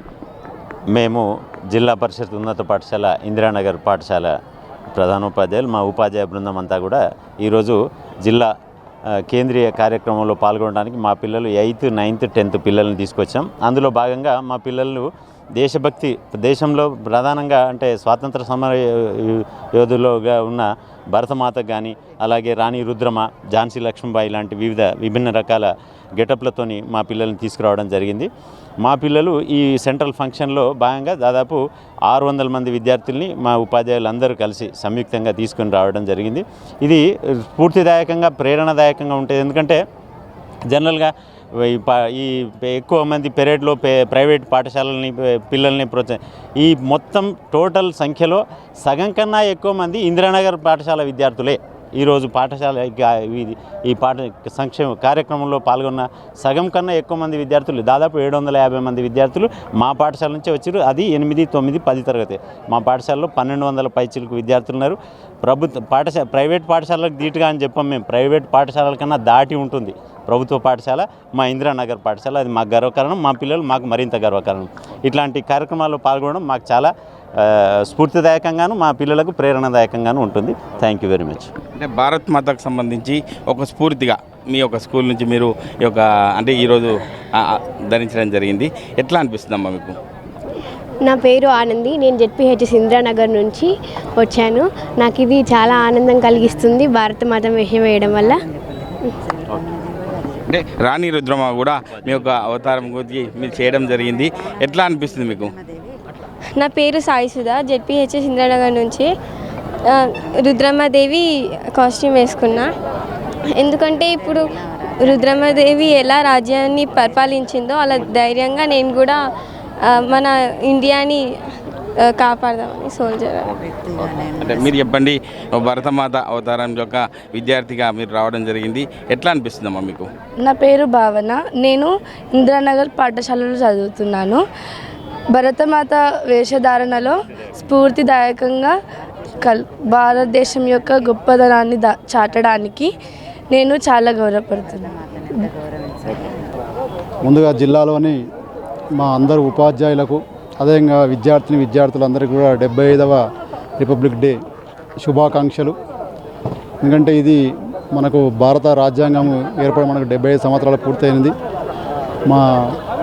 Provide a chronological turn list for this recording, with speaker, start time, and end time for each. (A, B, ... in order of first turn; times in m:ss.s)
0:00.9-0:04.3 A
0:04.9-0:08.5 A
0:09.1-0:28.3 A
0:28.8-0:39.8 A
0:40.7-1:21.5 A
1:21.8-1:30.0 B
1:31.0-1:38.4 C
1:40.5-1:45.5 B
1:46.6-1:49.1 D
1:49.8-1:52.7 D
1:53.5-1:59.2 D
1:59.8-2:01.2 D
2:02.0-2:03.6 D
2:04.0-2:10.1 B
2:10.4-2:14.4 E
2:15.3-2:18.7 E
2:19.4-2:22.9 E
2:23.5-2:24.9 E
2:27.2-2:28.2 F
2:29.0-2:33.2 F
2:33.8-2:34.4 F
2:35.0-2:35.8 F
2:36.8-2:37.4 F
2:37.9-2:41.3 F
2:42.3-2:42.8 F